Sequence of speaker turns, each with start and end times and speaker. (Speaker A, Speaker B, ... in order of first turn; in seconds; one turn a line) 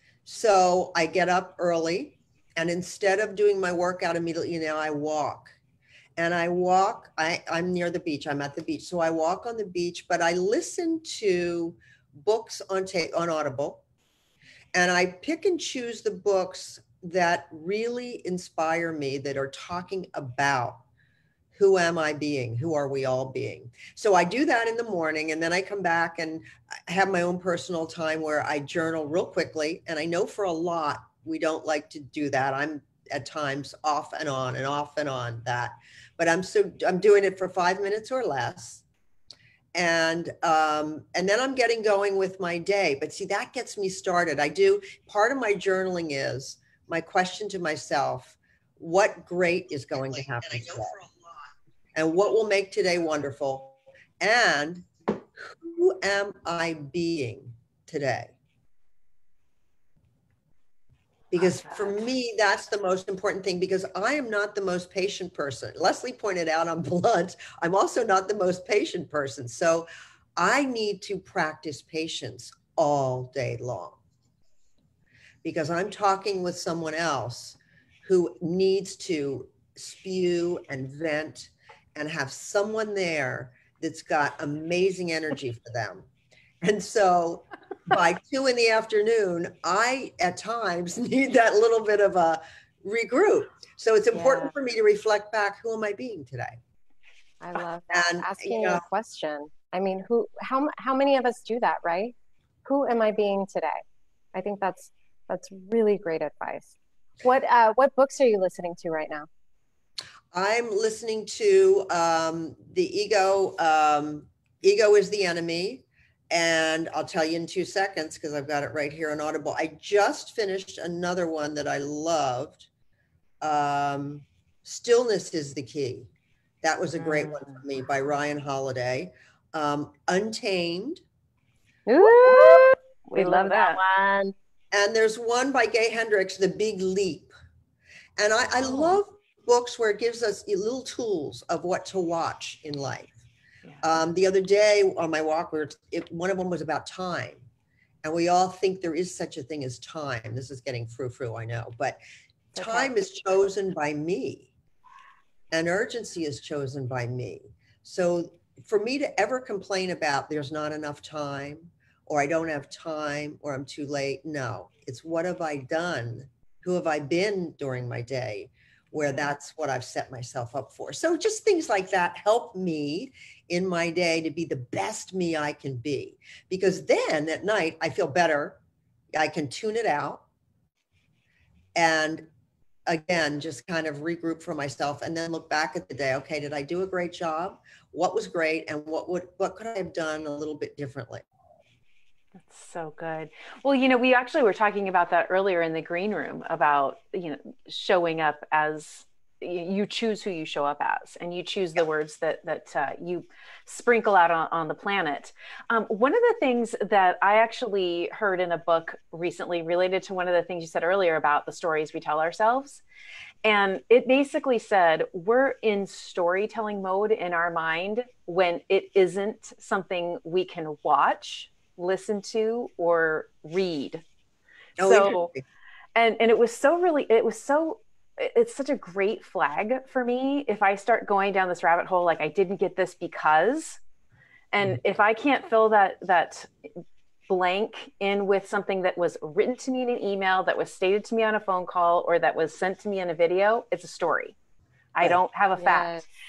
Speaker A: 0.3-5.5
Speaker A: 6.2-13.8
Speaker A: 14.7-20.8
Speaker A: 21.5-38.8
Speaker A: 39.7-51.0
Speaker A: 52.0-58.3
Speaker A: 61.3-74.0
Speaker B: 61.4-62.0
Speaker A: 75.4-86.1
Speaker A: 86.6-96.6
Speaker C: 94.1-94.5
Speaker C: 97.4-103.8
Speaker A: 97.9-98.8
Speaker C: 104.3-109.3
Speaker A: 110.3-122.7
Speaker A: 123.4-126.1
Speaker A: 126.6-131.0
Speaker B: 127.0-127.5
Speaker B: 131.9-133.8
Speaker C: 132.0-134.3
Speaker A: 134.7-137.3
Speaker A: 138.2-143.1
Speaker A: 143.8-147.4
Speaker A: 148.0-152.0
Speaker A: 152.6-154.5
Speaker B: 152.6-152.9
Speaker A: 155.5-178.6
Speaker A: 179.1-180.2
Speaker A: 181.8-182.3
Speaker A: 182.9-191.2
Speaker B: 192.5-212.8
Speaker B: 213.4-224.0
Speaker B: 224.8-225.3
Speaker A: 224.8-225.4
Speaker B: 225.9-233.8
Speaker B: 234.5-236.5
Speaker B: 237.3-244.4
Speaker B: 244.9-245.9
Speaker C: 245.6-246.1